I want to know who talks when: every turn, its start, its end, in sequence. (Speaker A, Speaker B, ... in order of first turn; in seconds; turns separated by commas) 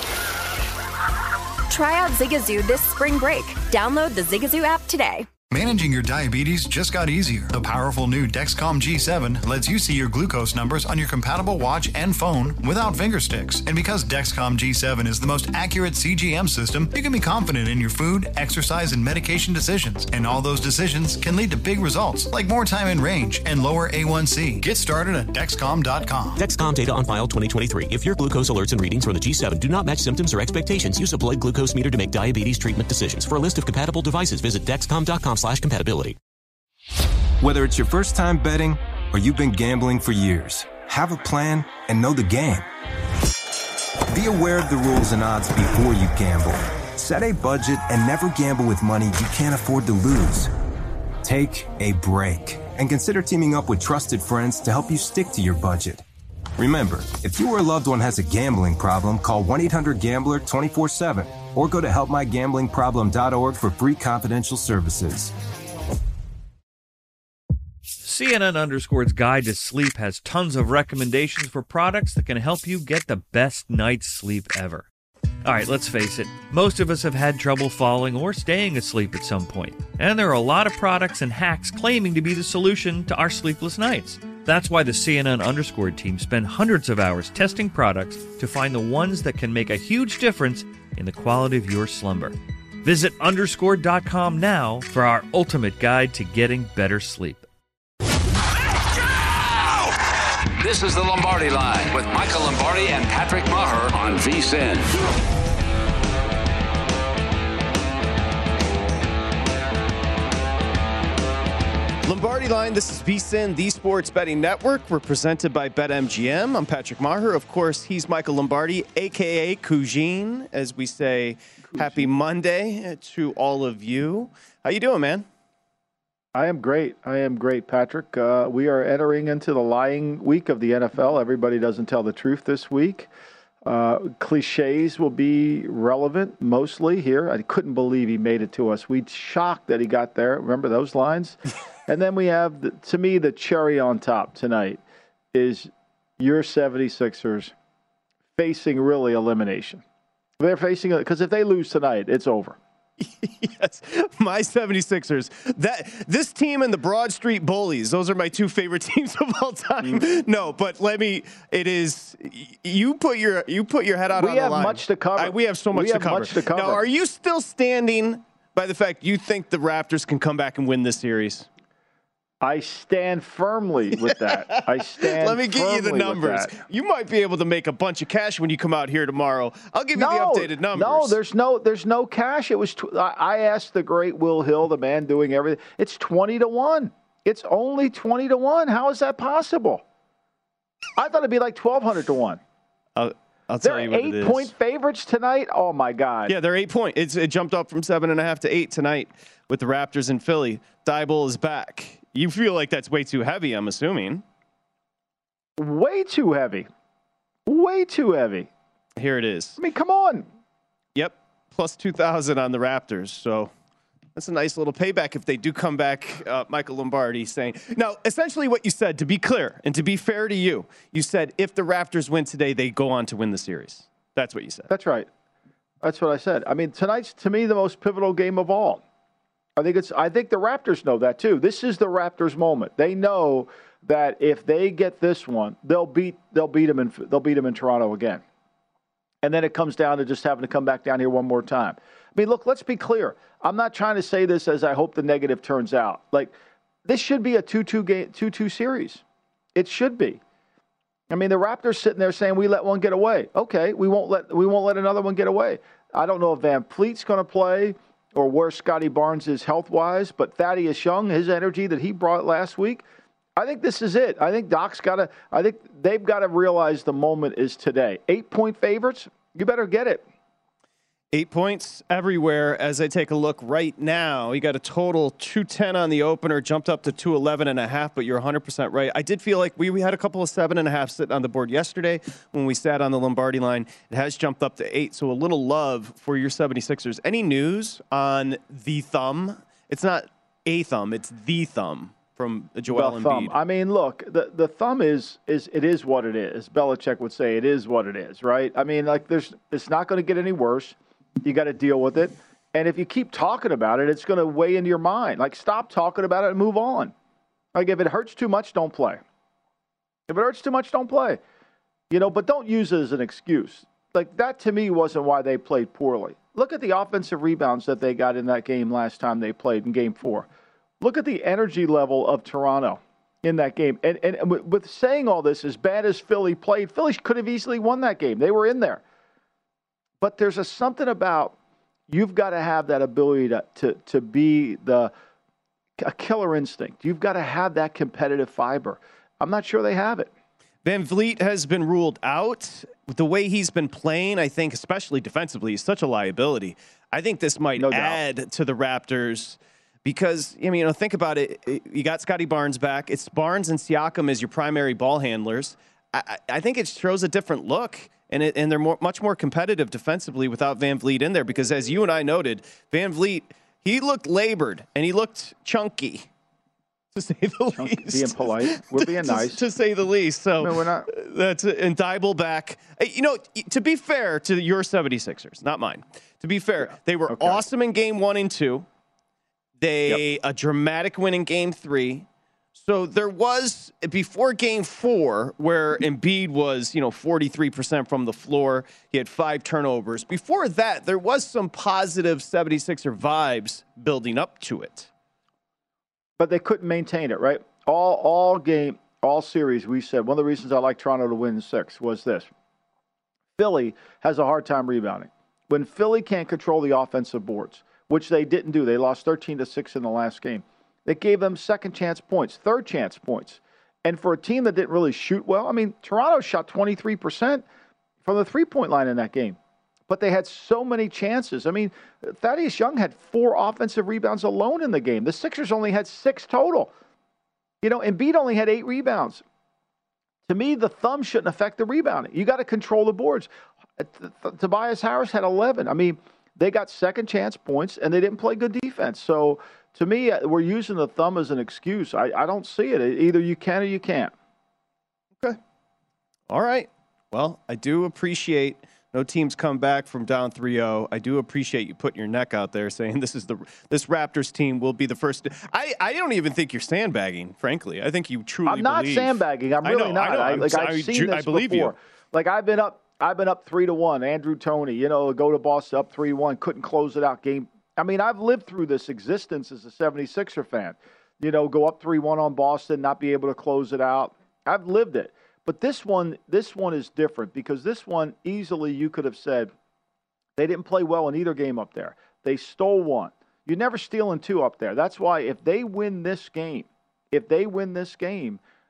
Speaker A: 1.7-5.3, Speaker B: 5.5-26.4, Speaker C: 26.4-36.2, Speaker D: 37.4-42.7, Speaker D: 44.1-50.5, Speaker D: 51.2-56.0, Speaker D: 56.6-65.3, Speaker E: 68.0-74.8, Speaker E: 75.4-97.5, Speaker F: 99.2-100.0, Speaker F: 100.6-104.9, Speaker G: 112.0-125.2, Speaker H: 121.7-122.1, Speaker H: 126.3-133.1, Speaker H: 133.7-144.8, Speaker H: 145.3-147.5, Speaker H: 148.4-149.8, Speaker H: 150.4-152.6, Speaker G: 153.0-171.5, Speaker H: 164.2-166.8, Speaker H: 172.4-176.6, Speaker G: 173.9-181.2, Speaker H: 179.9-189.8, Speaker H: 191.0-192.4, Speaker G: 192.9-194.5, Speaker H: 193.6-196.3, Speaker G: 196.3-204.2, Speaker H: 205.6-206.7, Speaker H: 207.5-208.5, Speaker G: 209.0-209.6, Speaker H: 209.6-210.3, Speaker G: 210.9-213.5, Speaker G: 214.1-224.7, Speaker H: 224.7-225.1, Speaker H: 225.8-228.8, Speaker H: 229.6-238.2, Speaker H: 239.2-246.3, Speaker H: 246.8-249.0, Speaker H: 249.5-250.2, Speaker H: 251.1-262.8, Speaker H: 263.4-270.0, Speaker G: 271.1-293.3, Speaker H: 292.7-306.9, Speaker H: 307.5-309.0, Speaker H: 310.1-311.2, Speaker H: 311.9-320.3, Speaker H: 320.8-328.8, Speaker H: 330.0-331.3, Speaker H: 331.9-334.9, Speaker H: 335.8-340.1, Speaker G: 340.6-366.1, Speaker H: 347.6-348.0, Speaker G: 366.9-378.6, Speaker H: 367.6-369.4, Speaker H: 370.4-370.9, Speaker H: 376.7-377.4, Speaker G: 379.6-394.9, Speaker H: 396.2-402.3, Speaker H: 403.4-417.4, Speaker H: 418.0-419.4, Speaker H: 419.9-426.7, Speaker H: 427.6-429.2, Speaker H: 430.3-444.1, Speaker G: 446.3-461.7, Speaker H: 458.4-479.5, Speaker H: 480.4-488.4